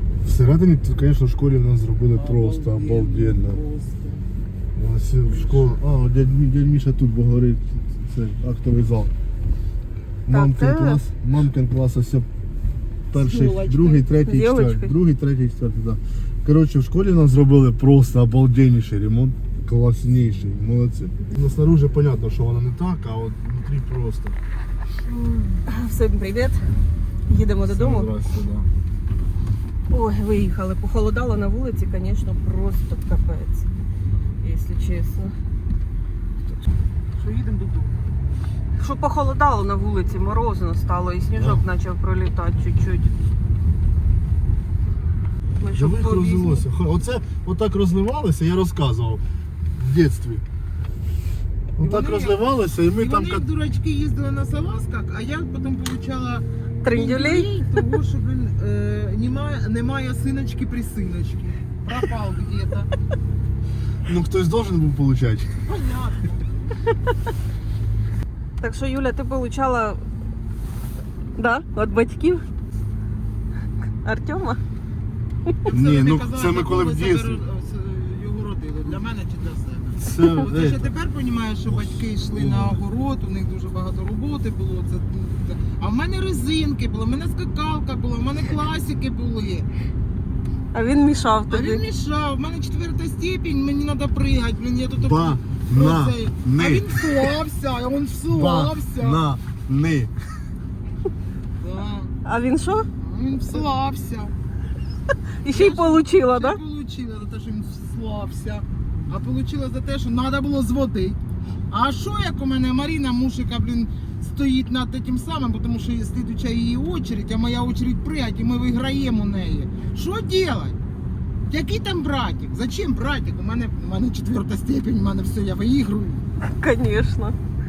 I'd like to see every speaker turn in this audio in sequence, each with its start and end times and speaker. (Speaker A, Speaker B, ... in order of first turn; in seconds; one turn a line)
Speaker A: 0.2-3.6
Speaker B: 2.1-4.3
Speaker A: 4.8-9.1
Speaker B: 5.2-5.8
Speaker A: 10.3-12.3
Speaker C: 10.3-11.0
Speaker A: 13.1-24.4
Speaker B: 13.1-14.1
Speaker C: 14.1-15.0
Speaker C: 25.6-26.6
Speaker C: 27.3-28.1
Speaker A: 27.6-28.7
Speaker C: 29.9-33.7
Speaker C: 34.4-35.3
Speaker B: 37.2-38.0
Speaker C: 38.8-43.2
Speaker A: 41.4-41.6
Speaker C: 45.6-46.7
Speaker A: 45.8-50.4
Speaker A: 51.8-53.4
Speaker B: 51.8-62.9
Speaker C: 56.8-57.5
Speaker A: 64.0-65.6
Speaker B: 65.6-66.7
Speaker C: 68.6-70.0
Speaker C: 71.4-72.4
Speaker C: 74.0-74.6
Speaker B: 75.6-89.7
Speaker A: 75.7-77.4
Speaker A: 80.0-80.9
Speaker A: 81.7-82.8
Speaker C: 90.7-91.8
Speaker B: 91.5-99.2
Speaker A: 95.0-97.3
Speaker A: 98.3-100.1
Speaker B: 101.6-102.1
Speaker C: 102.2-102.9
Speaker B: 103.0-104.3
Speaker C: 105.4-106.6
Speaker B: 105.5-120.8
Speaker B: 121.5-126.2
Speaker C: 126.5-127.3